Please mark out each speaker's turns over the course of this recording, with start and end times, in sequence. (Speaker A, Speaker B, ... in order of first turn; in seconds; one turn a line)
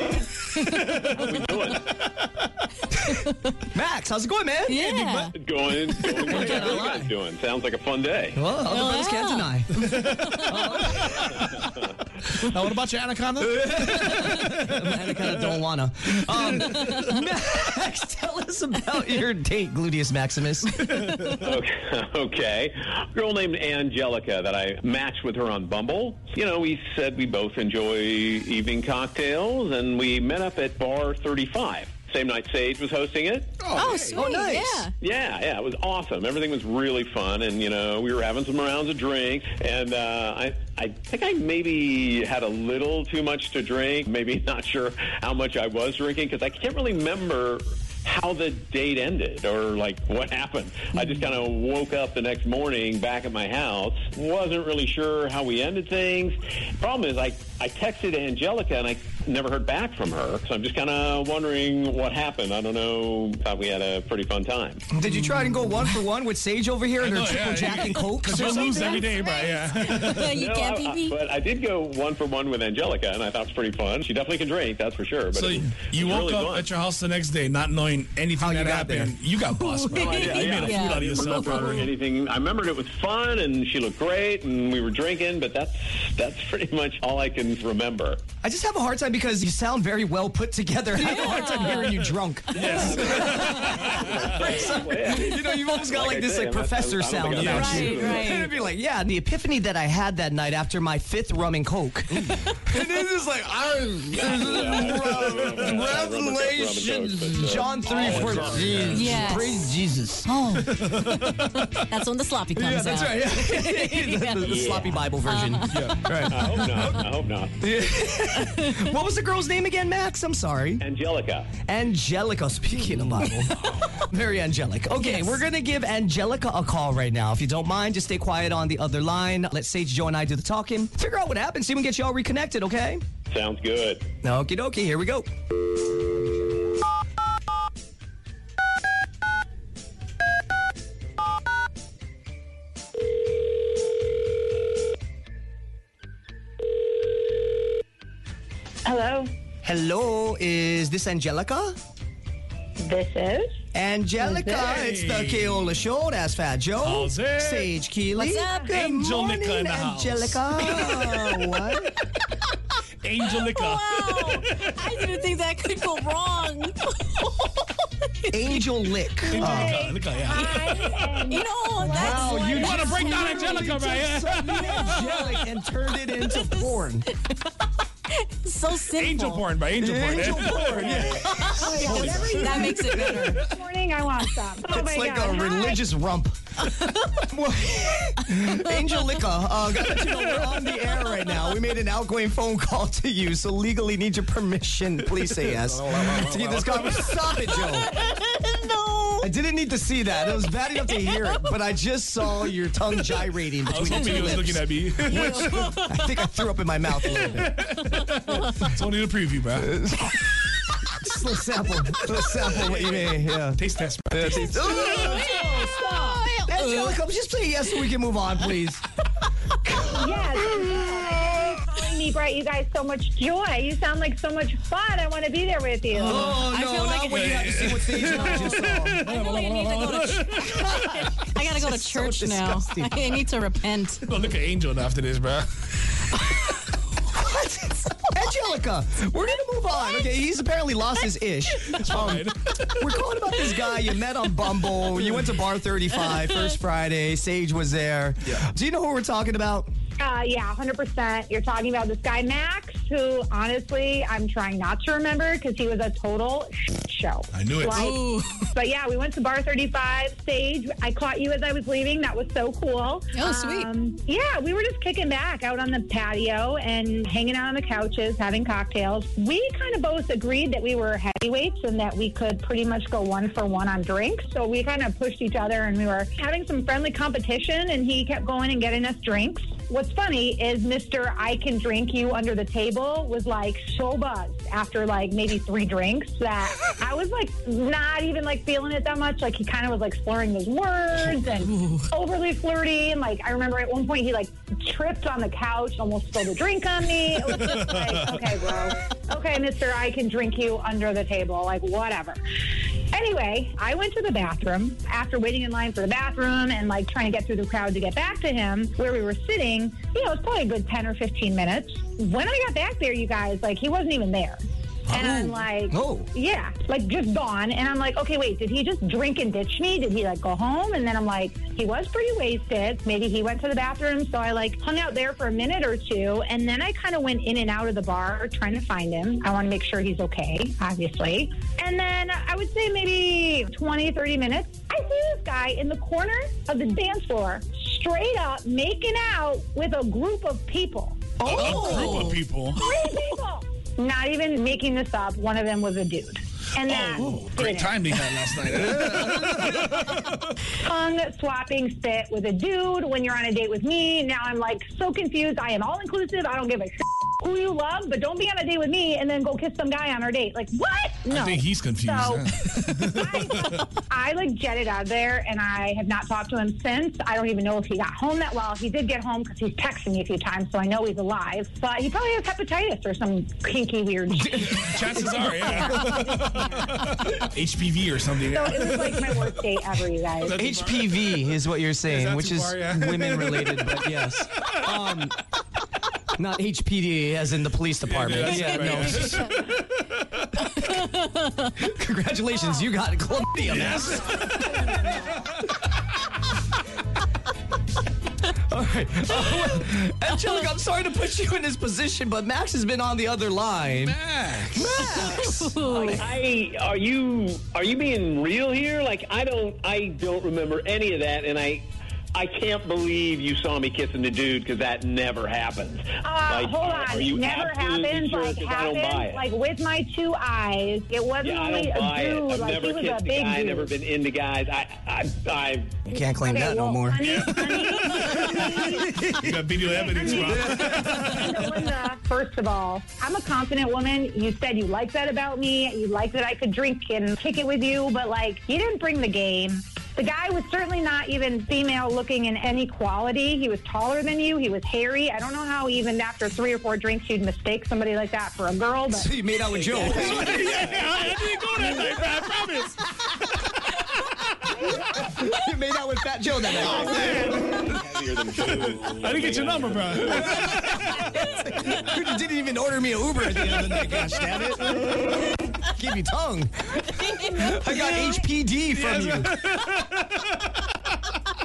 Speaker A: 0.6-0.9
Speaker B: 0.6-1.3
Speaker C: 1.1-2.0
Speaker A: 3.0-3.5
Speaker D: 3.7-4.9
Speaker A: 4.7-5.3
Speaker C: 5.3-8.4
Speaker D: 6.1-7.1
Speaker A: 6.3-6.7
Speaker D: 8.3-11.5
Speaker A: 8.6-9.6
Speaker B: 9.8-11.2
Speaker A: 10.1-11.1
Speaker C: 11.3-11.9
Speaker B: 12.3-15.4
Speaker D: 13.4-20.7
Speaker B: 20.9-21.3
Speaker C: 21.3-33.6
Speaker B: 33.6-34.2
Speaker A: 33.8-34.9
Speaker D: 33.8-34.9
Speaker C: 35.0-64.8
Speaker D: 64.9-69.1
Speaker B: 67.0-70.5
Speaker A: 67.8-71.2
Speaker C: 70.3-76.7
Speaker B: 75.3-81.9
Speaker D: 78.4-79.2
Speaker A: 79.7-81.9
Speaker C: 79.9-88.2
Speaker D: 88.4-110.3
Speaker A: 91.0-92.1
Speaker C: 92.5-98.7
Speaker B: 92.5-94.1
Speaker A: 97.3-98.5
Speaker A: 102.5-102.8
Speaker C: 104.1-109.0
Speaker B: 108.0-109.4
Speaker A: 108.9-109.7
Speaker A: 110.3-116.3
Speaker B: 110.6-111.6
Speaker D: 112.5-120.8
Speaker C: 114.5-115.0
Speaker B: 115.7-116.1
Speaker C: 116.3-117.7
Speaker A: 118.4-118.9
Speaker C: 120.8-121.5
Speaker D: 121.7-133.0
Speaker C: 133.3-134.1
Speaker D: 134.2-135.3
Speaker E: 148.8-149.3
Speaker D: 149.6-151.8
Speaker E: 152.8-153.6
Speaker D: 153.7-161.9
Speaker E: 154.2-154.7
Speaker B: 154.5-155.8
Speaker B: 156.8-157.7
Speaker A: 158.2-158.7
Speaker B: 158.7-161.1
Speaker A: 160.6-161.4
Speaker B: 163.0-165.3
Speaker A: 163.3-168.7
Speaker D: 168.3-169.8
Speaker E: 169.3-173.1
Speaker B: 169.3-171.3
Speaker A: 171.3-174.0
Speaker D: 171.8-177.1
Speaker B: 172.5-175.3
Speaker A: 174.7-175.2
Speaker A: 176.2-179.5
Speaker B: 178.9-181.2
Speaker D: 179.8-183.2
Speaker E: 180.7-185.8
Speaker A: 181.2-183.4
Speaker B: 181.8-182.8
Speaker D: 184.7-197.9
Speaker A: 186.8-187.1
Speaker A: 188.4-189.2
Speaker B: 195.2-197.6
Speaker A: 197.6-199.3
Speaker D: 199.2-207.6
Speaker A: 201.0-201.4
Speaker B: 203.7-205.8
Speaker A: 205.5-206.1
Speaker B: 207.0-209.8
Speaker D: 209.6-210.3
Speaker D: 210.9-213.6
Speaker B: 212.4-215.9
Speaker D: 214.1-218.8
Speaker A: 214.6-217.0
Speaker D: 219.7-220.8
Speaker E: 219.9-226.4
Speaker D: 226.0-229.0
Speaker A: 226.0-234.1
Speaker B: 227.1-230.7
Speaker D: 230.5-233.1
Speaker B: 234.1-235.9
Speaker A: 236.3-236.8
Speaker D: 237.1-249.7
Speaker B: 241.6-242.9
Speaker E: 250.0-302.2
Speaker B: 257.3-257.9
Speaker A: 257.8-258.5
Speaker A: 263.1-263.7
Speaker B: 297.5-298.3
Speaker E: 302.8-342.0
Speaker D: 314.9-316.1
Speaker D: 341.2-342.1
Speaker B: 341.2-342.6
Speaker A: 341.8-342.1
Speaker E: 342.6-347.8
Speaker B: 346.6-350.1
Speaker E: 350.6-377.3
Speaker B: 361.1-363.7
Speaker B: 374.4-379.4
Speaker D: 374.9-375.8
Speaker E: 378.3-380.4
Speaker B: 380.2-381.2
Speaker D: 380.3-385.2
Speaker B: 381.9-384.7
Speaker D: 386.1-389.4
Speaker B: 387.9-390.2
Speaker A: 388.3-388.6
Speaker A: 390.9-391.6
Speaker D: 391.6-394.6
Speaker B: 393.4-394.6
Speaker E: 394.2-395.3
Speaker D: 398.3-404.0
Speaker B: 403.7-405.3
Speaker D: 404.5-406.0
Speaker A: 404.9-406.1
Speaker C: 405.8-411.6
Speaker C: 412.1-419.3
Speaker E: 416.0-423.7
Speaker C: 421.2-425.8
Speaker D: 425.9-427.1
Speaker E: 425.9-429.0
Speaker B: 427.0-431.6
Speaker E: 429.6-449.1
Speaker D: 430.0-431.3
Speaker D: 448.9-450.5
Speaker C: 449.5-451.7
Speaker B: 449.8-452.9
Speaker D: 455.0-457.4
Speaker B: 456.5-457.7
Speaker C: 457.1-460.5
Speaker B: 458.4-461.1
Speaker A: 460.9-461.9
Speaker D: 461.1-469.4
Speaker B: 463.4-465.0
Speaker A: 467.0-468.2
Speaker B: 468.8-470.5